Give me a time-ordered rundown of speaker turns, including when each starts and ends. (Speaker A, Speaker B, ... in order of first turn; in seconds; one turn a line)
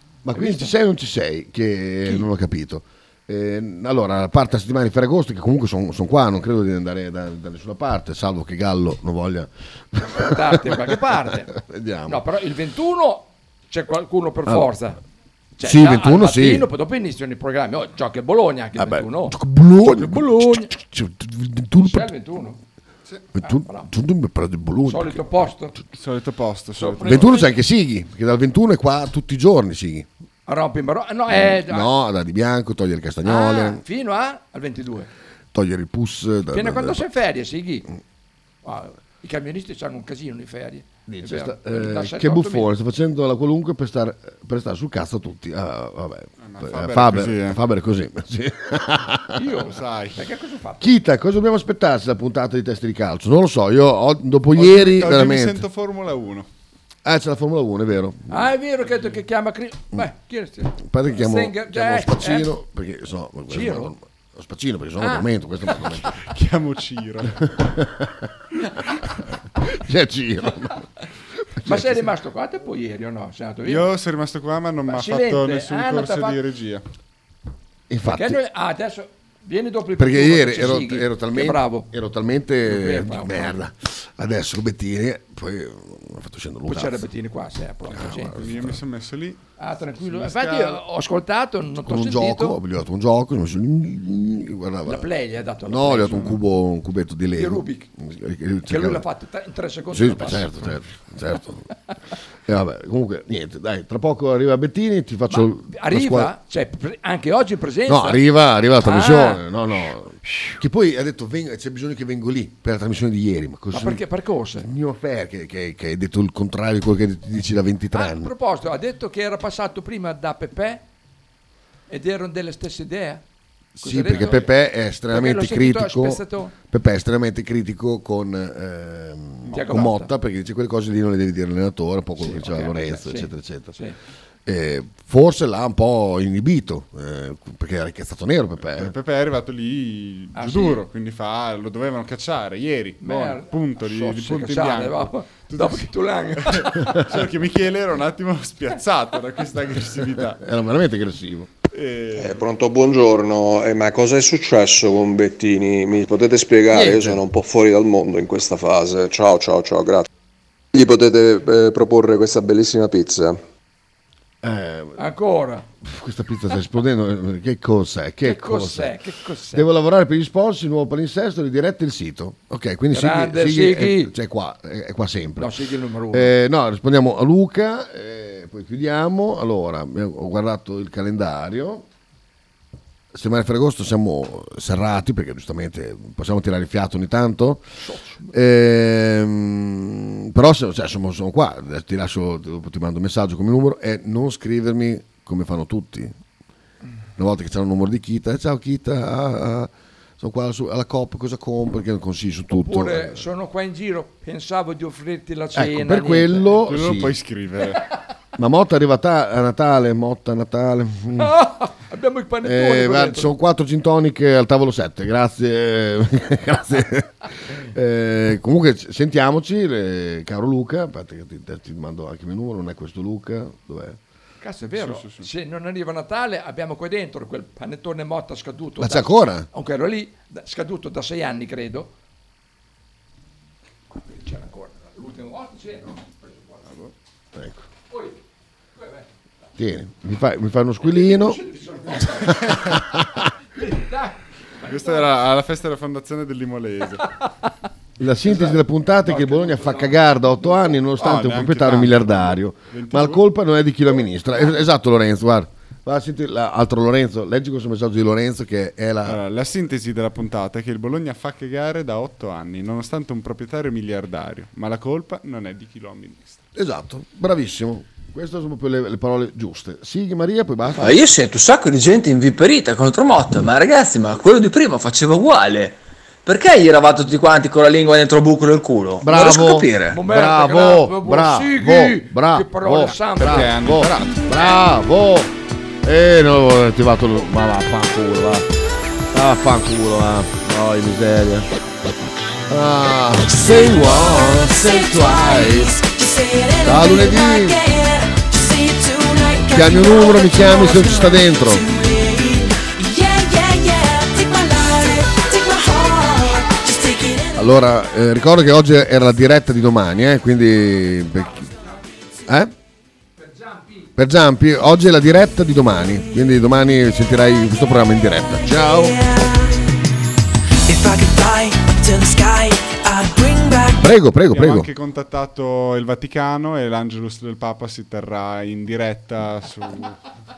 Speaker A: 0.2-12.2
Speaker B: 0.3-0.7
Speaker B: 10.0-11.5
Speaker B: 12.1-15.0
Speaker B: 15.6-19.4
Speaker A: 15.6-16.7
Speaker A: 18.8-22.1
Speaker B: 19.9-20.7
Speaker B: 21.8-22.6
Speaker A: 23.3-25.2
Speaker B: 23.4-23.9
Speaker B: 24.9-25.8
Speaker C: 26.0-27.4
Speaker B: 26.8-27.5
Speaker A: 27.0-30.1
Speaker B: 30.4-31.9
Speaker A: 31.3-33.8
Speaker B: 33.2-35.1
Speaker A: 35.5-37.0
Speaker B: 36.5-37.9
Speaker B: 38.6-42.7
Speaker A: 41.1-49.4
Speaker C: 46.4-47.6
Speaker B: 49.4-50.9
Speaker C: 49.7-50.2
Speaker A: 50.8-55.6
Speaker C: 54.5-56.5
Speaker A: 57.0-58.5
Speaker B: 58.3-62.5
Speaker A: 60.8-66.1
Speaker B: 63.5-63.9
Speaker B: 65.0-65.3
Speaker C: 66.2-67.5
Speaker A: 67.5-68.3
Speaker A: 69.6-70.8
Speaker A: 71.6-72.1
Speaker B: 71.6-73.9
Speaker C: 73.7-76.8
Speaker B: 74.9-76.4
Speaker A: 77.9-78.4
Speaker B: 78.1-81.9
Speaker A: 80.0-87.0
Speaker B: 82.6-83.6
Speaker B: 86.7-88.3
Speaker A: 87.9-88.8
Speaker C: 88.4-89.4
Speaker B: 89.6-92.5
Speaker C: 90.0-90.6
Speaker A: 91.8-95.1
Speaker B: 94.8-96.3
Speaker A: 95.6-99.0
Speaker C: 96.1-96.4
Speaker B: 97.3-97.9
Speaker B: 98.7-100.7
Speaker A: 99.9-101.6
Speaker A: 102.5-106.3
Speaker B: 105.3-108.2
Speaker A: 107.9-114.0
Speaker B: 108.8-109.4
Speaker B: 113.7-114.7
Speaker A: 114.6-118.3
Speaker B: 117.9-120.8
Speaker B: 121.9-123.2
Speaker B: 123.8-124.5
Speaker A: 123.8-133.8
Speaker B: 125.1-126.5
Speaker B: 129.5-130.1
Speaker B: 132.2-133.9
Speaker A: 134.4-138.9
Speaker C: 138.8-150.4
Speaker B: 140.3-140.8
Speaker B: 143.0-146.9
Speaker A: 150.4-151.5
Speaker C: 151.7-152.4
Speaker D: 152.1-160.1
Speaker A: 156.7-157.1
Speaker D: 160.7-163.4
Speaker A: 164.4-165.0
Speaker B: 165.0-165.6
Speaker A: 165.8-168.9
Speaker B: 168.2-169.7
Speaker A: 169.5-175.5
Speaker B: 172.9-174.1
Speaker B: 175.4-176.3
Speaker A: 176.1-181.8
Speaker A: 183.1-187.6
Speaker B: 187.8-188.4
Speaker A: 188.3-196.1
Speaker A: 197.2-203.2
Speaker B: 202.5-206.6
Speaker A: 205.5-207.1
Speaker C: 206.7-207.8
Speaker A: 208.4-211.3
Speaker B: 211.2-213.3
Speaker A: 212.4-224.0
Speaker B: 224.4-231.9
Speaker C: 224.8-225.3
Speaker A: 228.8-229.5
Speaker B: 234.0-236.7
Speaker A: 237.3-237.6
Speaker B: 237.9-238.2
Speaker B: 238.8-239.1
Speaker A: 239.6-241.4
Speaker B: 240.8-242.7
Speaker A: 242.2-243.2
Speaker B: 243.6-245.1
Speaker C: 244.7-247.2
Speaker A: 248.0-259.2
Speaker B: 248.2-250.8
Speaker C: 250.9-253.2
Speaker C: 259.0-266.4
Speaker A: 266.6-271.0
Speaker E: 270.8-280.0
Speaker A: 279.0-285.3
Speaker B: 279.9-283.5
Speaker C: 283.2-284.2
Speaker A: 285.8-288.4
Speaker A: 289.1-291.5
Speaker A: 292.5-295.8
Speaker F: 293.2-307.5
Speaker A: 296.6-297.6
Speaker A: 299.5-301.6
Speaker A: 307.4-311.5
Speaker A: 312.2-312.5
Speaker B: 313.2-313.9
Speaker A: 314.0-319.0
Speaker F: 318.5-319.6
Speaker F: 320.7-323.9
Speaker A: 323.8-324.7
Speaker C: 324.3-330.0